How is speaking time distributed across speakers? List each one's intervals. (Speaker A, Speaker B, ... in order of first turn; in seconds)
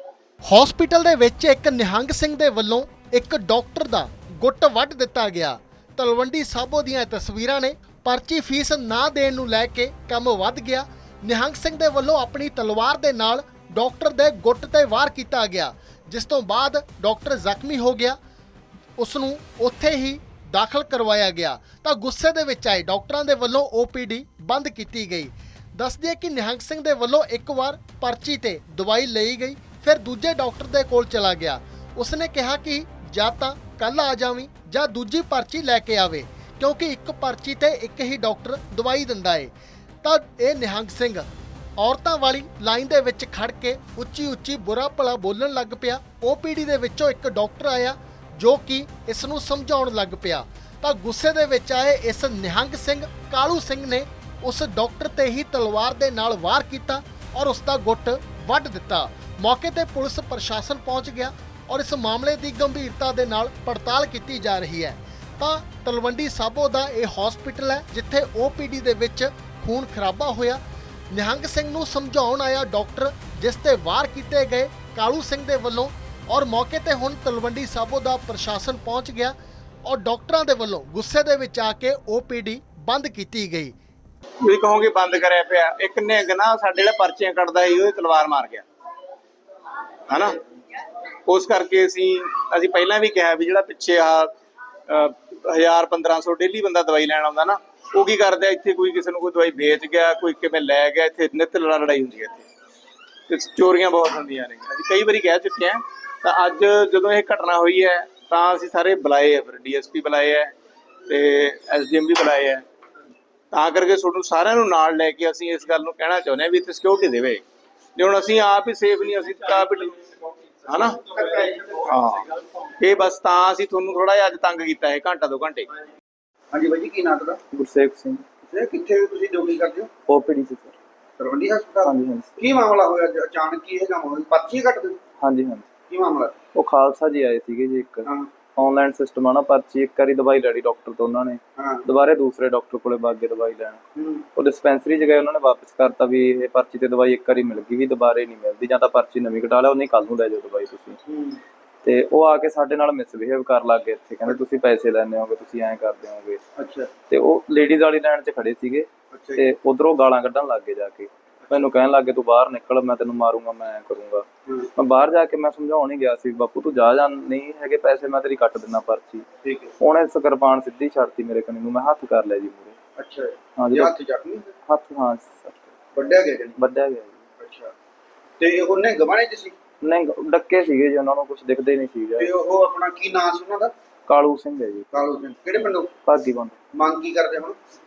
Speaker A: 0.4-18.2, 19.0-41.3, 41.8-70.6, 71.1-79.3, 79.8-83.7
Speaker B: 84.4-88.7, 90.1-90.3, 91.3-94.3, 94.9-102.5, 103.3-110.5, 111.1-112.6, 113.5-117.4, 118.0-121.1, 121.8-125.7
Speaker C: 121.1-121.8, 126.5-127.4, 128.5-129.9, 131.2-135.0, 135.9-136.3, 138.1-138.3, 141.6-141.9, 144.0-144.3, 151.1-151.4, 156.6-156.9, 159.1-159.4, 169.4-169.7, 173.0-174.5, 176.0-176.6, 177.4-177.7, 178.4-179.6, 182.2-183.7, 184.9-185.9, 186.7-187.6
Speaker D: 127.5-128.2, 130.1-130.7, 131.8-132.4, 135.2-135.7, 136.6-143.8, 144.4-151.0, 151.8-156.4, 157.1-169.3, 169.8-172.8, 173.6-174.0, 174.7-175.7, 176.6-177.2, 179.8-182.3, 184.1-184.9, 186.1-186.6